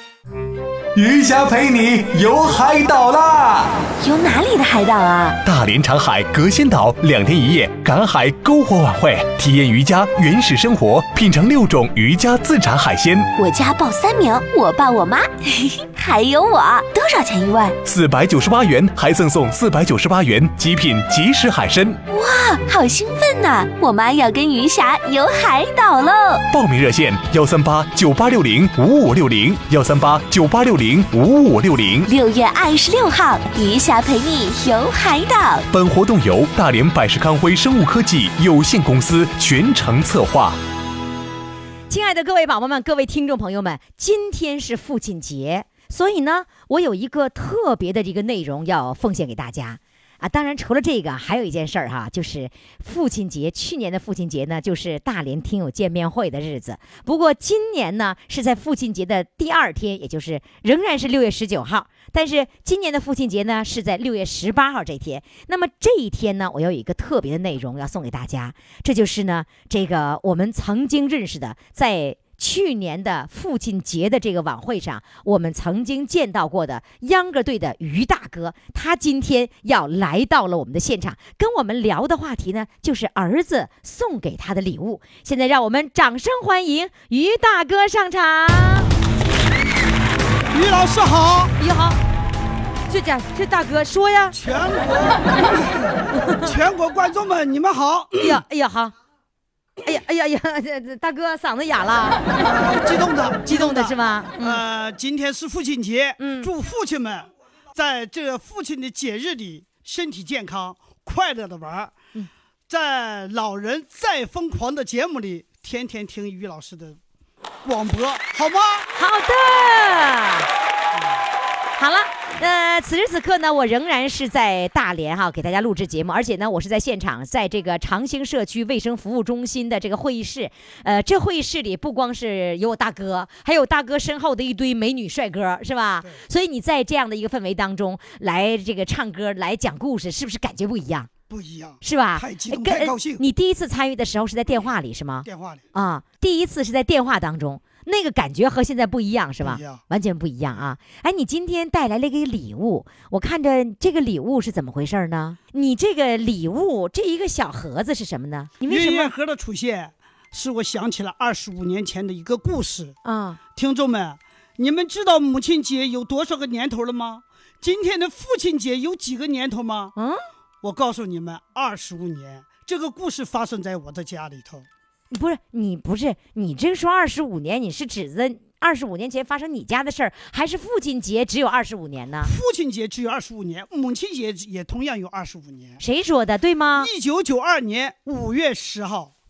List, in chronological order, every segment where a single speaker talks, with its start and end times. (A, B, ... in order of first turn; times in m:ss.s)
0:01.0-0:03.8 A
0:04.0-0:05.4 B
0:05.4-0:13.3 C
0:13.4-0:17.8 B
0:17.8-0:22.0 C
0:22.1-0:26.4 B
0:26.5-0:32.1 C
0:32.1-0:35.6 B
0:35.7-0:40.6 C
0:41.9-1:28.9 D
1:30.5-1:31.5 E
1:31.6-1:32.0 D
1:32.9-1:34.4 D
1:34.3-1:38.4 E
1:38.2-1:39.0 D
1:39.8-1:42.2 D
1:42.4-1:52.0 E
1:43.5-1:44.6 D
1:46.2-1:46.5 D
1:52.7-1:57.0 E
1:57.6-1:58.9 E
1:58.9-2:00.5 D
2:00.9-2:01.2 E
2:01.8-2:21.1 D
2:21.3-2:23.2 E
2:21.8-2:39.1 D
2:25.2-2:25.6 E
2:29.4-2:29.8 E
2:38.6-2:43.0 E
2:43.0-2:43.4 D
2:43.5-2:49.9 E
2:50.0-2:50.2 D
2:50.6-2:54.7 E
2:55.1-3:02.3 D
3:02.2-3:05.8 E
3:05.8-3:06.9 D
3:06.8-3:09.1 E